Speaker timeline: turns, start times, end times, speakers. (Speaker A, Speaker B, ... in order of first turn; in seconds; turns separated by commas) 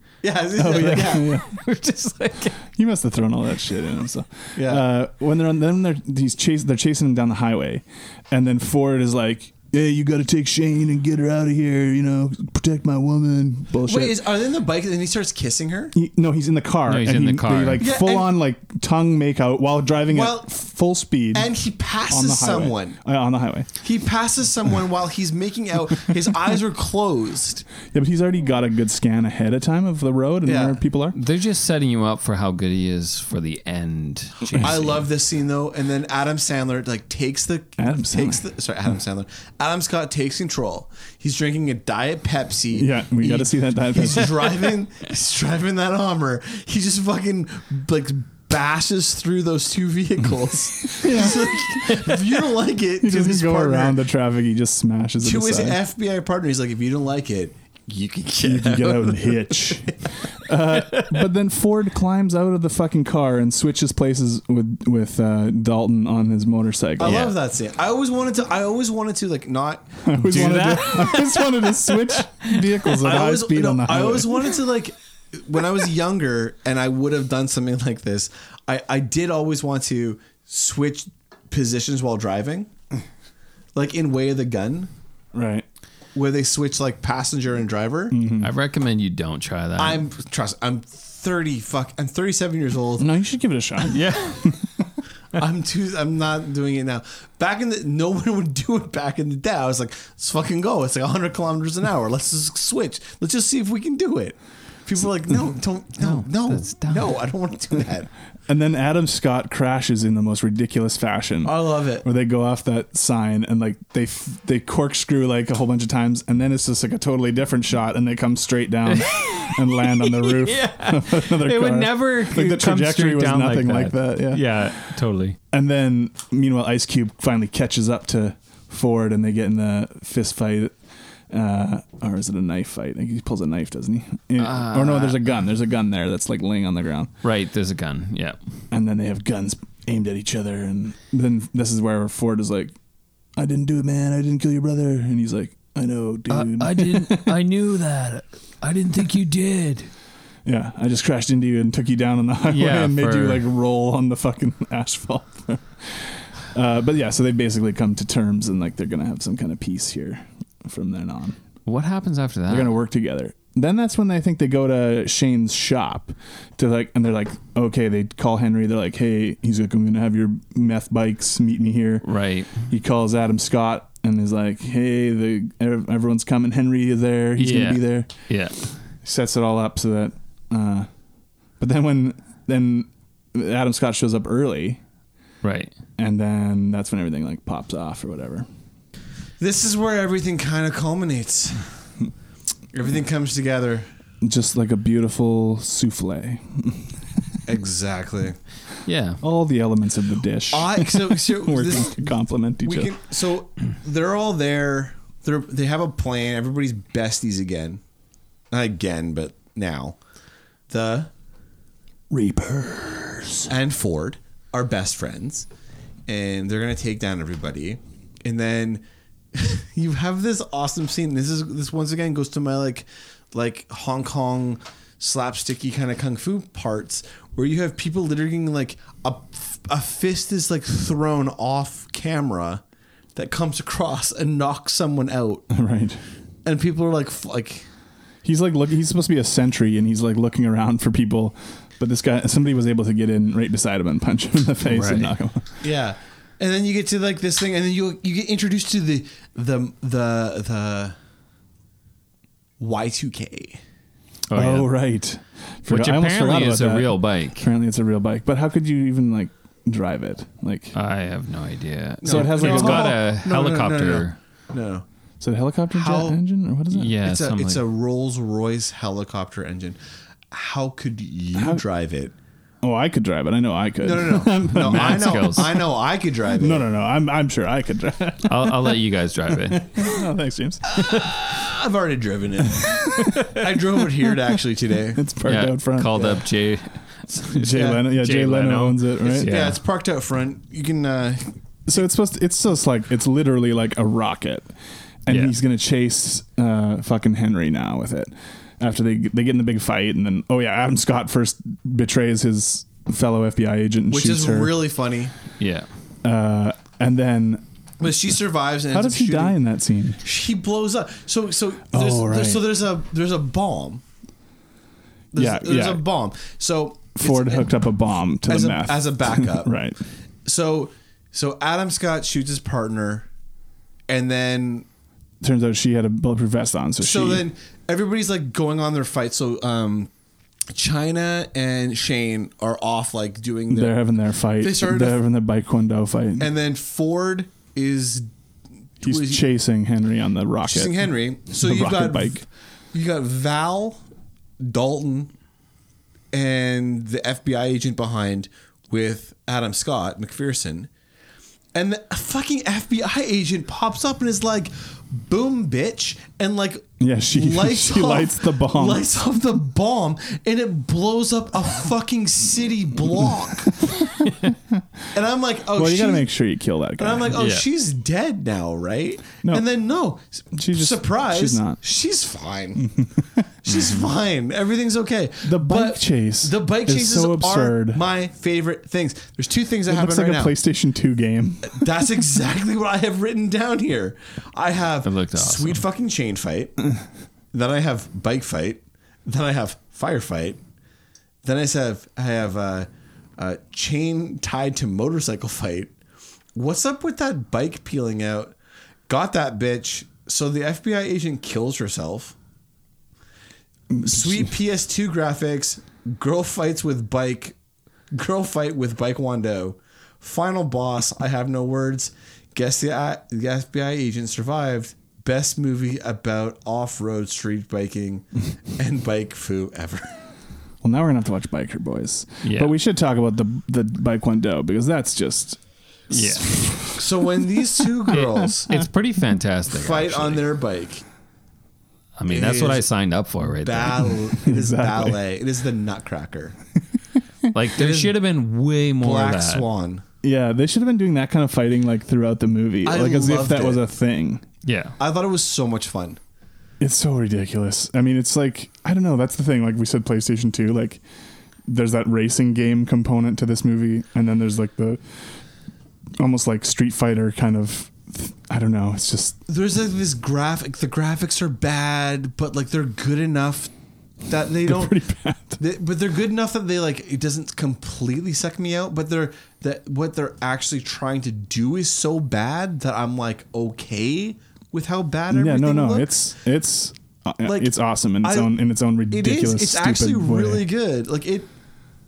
Speaker A: 0.2-1.3, Speaker B: 0.6-1.6, Speaker C: 1.4-2.6, Speaker B: 2.7-14.3, Speaker A: 4.5-4.9, Speaker A: 13.8-15.9, Speaker B: 15.9-21.6, Speaker C: 16.9-17.9, Speaker A: 17.8-18.3, Speaker A: 20.1-20.5, Speaker A: 21.3-23.0, Speaker B: 22.1-23.7, Speaker A: 23.8-27.6, Speaker B: 27.9-31.2, Speaker A: 30.4-30.8, Speaker C: 31.1-35.1, Speaker A: 34.6-54.0, Speaker B: 37.8-38.4, Speaker B: 42.7-44.6, Speaker B: 51.0-51.5, Speaker B: 53.0-55.8, Speaker A: 55.2-60.0, Speaker B: 58.4-67.3, Speaker A: 67.0-70.8, Speaker C: 67.0-67.3, Speaker B: 70.0-74.5, Speaker C: 70.3-72.7, Speaker A: 73.0-82.7, Speaker A: 83.7-84.9, Speaker B: 85.3-85.7, Speaker A: 86.1-88.2, Speaker B: 88.1-88.5, Speaker C: 88.4-90.0, Speaker A: 89.8-93.1, Speaker B: 93.0-94.6, Speaker C: 93.9-94.5, Speaker A: 95.3-108.1, Speaker C: 106.0-107.2, Speaker B: 108.5-124.8, Speaker A: 111.4-112.0, Speaker C: 118.9-125.4, Speaker B: 125.5-130.7, Speaker B: 131.3-137.1, Speaker C: 134.4-135.2, Speaker C: 137.2-138.4, Speaker B: 138.7-142.7, Speaker B: 143.4-147.4, Speaker C: 146.3-149.9, Speaker B: 150.4-161.4, Speaker C: 152.5-153.4, Speaker C: 161.7-162.8, Speaker B: 162.5-172.1, Speaker C: 172.0-172.7, Speaker B: 172.7-178.1, Speaker C: 177.4-178.6, Speaker B: 179.0-180.9, Speaker B: 181.6-184.8, Speaker C: 185.4-185.7, Speaker B: 186.0-188.4, Speaker A: 189.4-191.7, Speaker A: 192.7-193.9, Speaker B: 194.2-197.2, Speaker A: 197.4-198.4, Speaker C: 198.8-199.2, Speaker B: 199.2-202.9, Speaker A: 200.5-207.8, Speaker A: 208.5-210.0, Speaker A: 210.7-211.1, Speaker B: 212.1-213.5, Speaker A: 213.5-215.5, Speaker A: 216.1-232.6, Speaker A: 233.1-235.4, Speaker B: 235.5-236.0, Speaker A: 236.4-237.7, Speaker B: 238.2-245.4, Speaker C: 244.7-245.1, Speaker A: 245.6-250.9, Speaker A: 252.6-253.6, Speaker C: 254.3-254.7, Speaker B: 254.3-260.7, Speaker C: 255.7-257.4, Speaker C: 260.7-264.2, Speaker A: 262.0-264.8, Speaker B: 262.1-263.0, Speaker B: 265.2-266.9, Speaker A: 265.7-266.2, Speaker C: 266.7-267.6, Speaker A: 267.0-269.8, Speaker A: 270.3-272.1, Speaker B: 271.4-271.6, Speaker B: 272.6-275.6, Speaker A: 273.8-276.6, Speaker C: 274.5-275.7, Speaker B: 276.4-281.1, Speaker C: 278.2-279.9, Speaker A: 280.7-285.0, Speaker B: 282.5-284.1, Speaker B: 284.9-286.2, Speaker C: 285.2-289.6, Speaker A: 285.9-286.2, Speaker B: 287.2-289.4, Speaker A: 287.5-287.8, Speaker A: 289.1-291.4, Speaker B: 291.7-294.5, Speaker B: 295.1-304.6, Speaker C: 295.1-295.3, Speaker A: 303.9-305.1, Speaker C: 305.4-305.7, Speaker B: 306.0-307.4, Speaker A: 307.8-309.4, Speaker B: 308.7-310.0, Speaker A: 310.0-313.8, Speaker B: 311.7-312.6, Speaker A: 315.1-317.6, Speaker B: 315.1-315.9, Speaker B: 316.9-319.8, Speaker A: 318.2-319.6, Speaker A: 320.2-323.1, Speaker A: 323.9-324.7, Speaker B: 325.2-327.3, Speaker A: 326.8-329.9, Speaker A: 330.5-335.0, Speaker B: 333.5-336.3, Speaker A: 336.2-338.1, Speaker A: 338.8-339.2, Speaker B: 338.8-342.2, Speaker A: 340.4-343.8, Speaker A: 344.4-345.1, Speaker A: 346.1-350.7, Speaker A: 351.5-363.6, Speaker B: 356.8-358.9, Speaker B: 363.6-364.6, Speaker A: 364.9-366.1, Speaker B: 365.5-367.2, Speaker A: 366.8-372.7, Speaker C: 367.1-367.4, Speaker B: 369.2-369.5, Speaker B: 370.3-371.6, Speaker B: 372.6-373.2, Speaker A: 373.4-380.3, Speaker B: 375.2-377.8, Speaker B: 379.7-381.8, Speaker A: 381.4-386.6, Speaker C: 384.8-385.6, Speaker A: 387.3-390.4, Speaker A: 391.2-395.7, Speaker A: 396.3-398.3, Speaker A: 398.9-402.1, Speaker B: 403.7-404.3, Speaker A: 403.8-407.3, Speaker A: 407.9-420.0, Speaker B: 420.6-425.4, Speaker C: 422.2-422.6, Speaker C: 425.9-426.3, Speaker B: 425.9-428.6, Speaker A: 426.7-428.5, Speaker C: 428.5-430.3, Speaker A: 429.5-430.8, Speaker C: 432.0-433.9, Speaker A: 432.1-432.6, Speaker A: 433.4-436.4, Speaker B: 434.2-435.0, Speaker C: 437.3-439.4, Speaker A: 437.5-438.0, Speaker A: 438.8-439.8, Speaker B: 440.0-444.2, Speaker A: 442.6-443.6, Speaker C: 444.4-444.8, Speaker A: 444.8-446.0, Speaker B: 446.6-450.8, Speaker B: 451.5-454.8, Speaker B: 456.0-459.2, Speaker A: 459.3-463.5, Speaker A: 464.1-464.8, Speaker B: 464.4-465.4, Speaker A: 465.4-475.9, Speaker B: 475.1-480.5, Speaker A: 477.2-481.3